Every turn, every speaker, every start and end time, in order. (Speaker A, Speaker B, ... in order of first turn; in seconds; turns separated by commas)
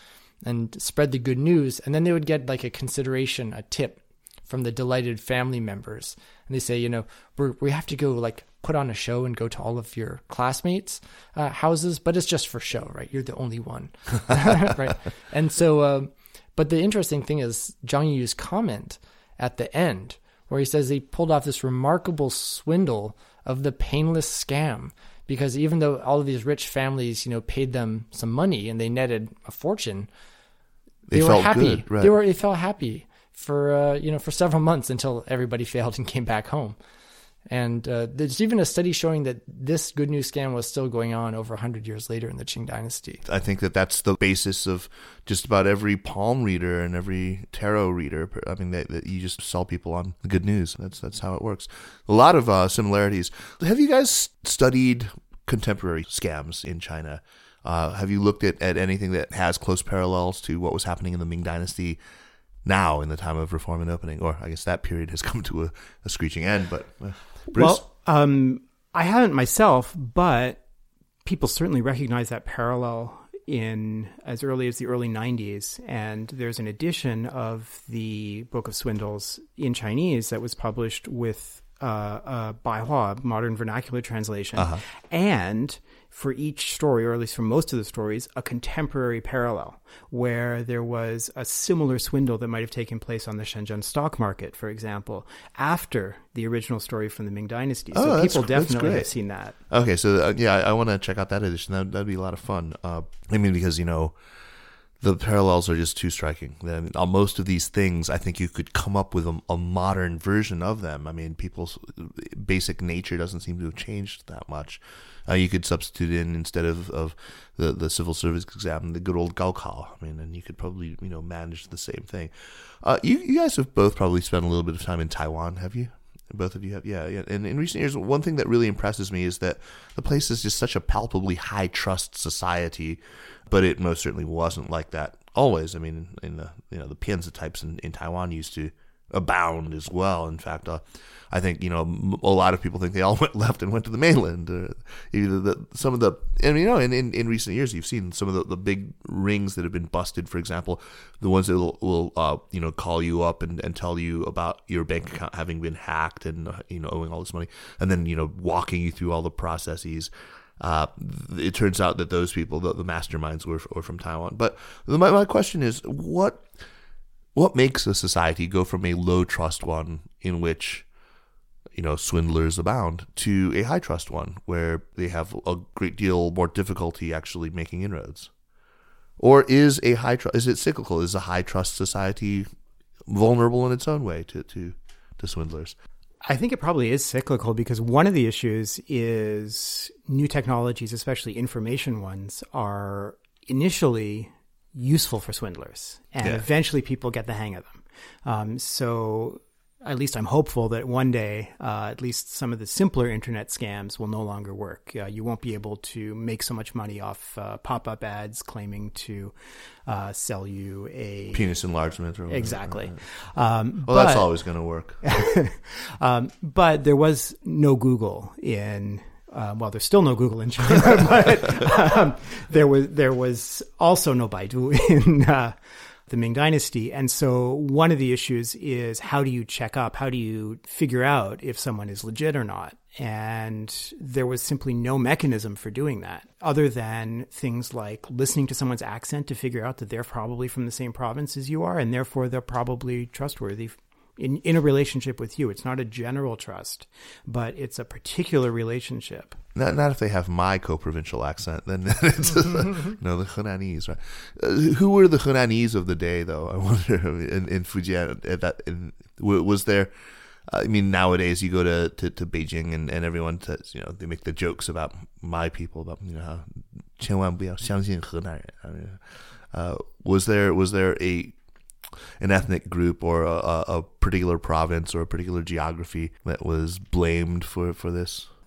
Speaker A: 0.4-30.1, Speaker B: 31.1-32.1, Speaker A: 31.1-36.8, Speaker A: 37.5-43.2, Speaker B: 43.2-62.0, Speaker B: 62.6-67.8, Speaker C: 67.5-70.6, Speaker C: 71.2-99.6, Speaker B: 84.5-84.8, Speaker B: 97.9-99.1, Speaker B: 99.7-104.1, Speaker B: 105.0-166.5, Speaker B: 167.3-170.8, Speaker B: 171.7-178.3, Speaker B: 179.2-182.5, Speaker B: 183.1-185.8, Speaker C: 186.2-209.3, Speaker C: 209.8-211.5, Speaker B: 211.3-213.0, Speaker C: 212.3-214.3, Speaker B: 213.8-215.1, Speaker C: 215.0-225.6, Speaker C: 226.1-249.4, Speaker B: 249.5-259.9, Speaker B: 260.5-269.0, Speaker B: 269.5-271.3, Speaker B: 272.2-278.3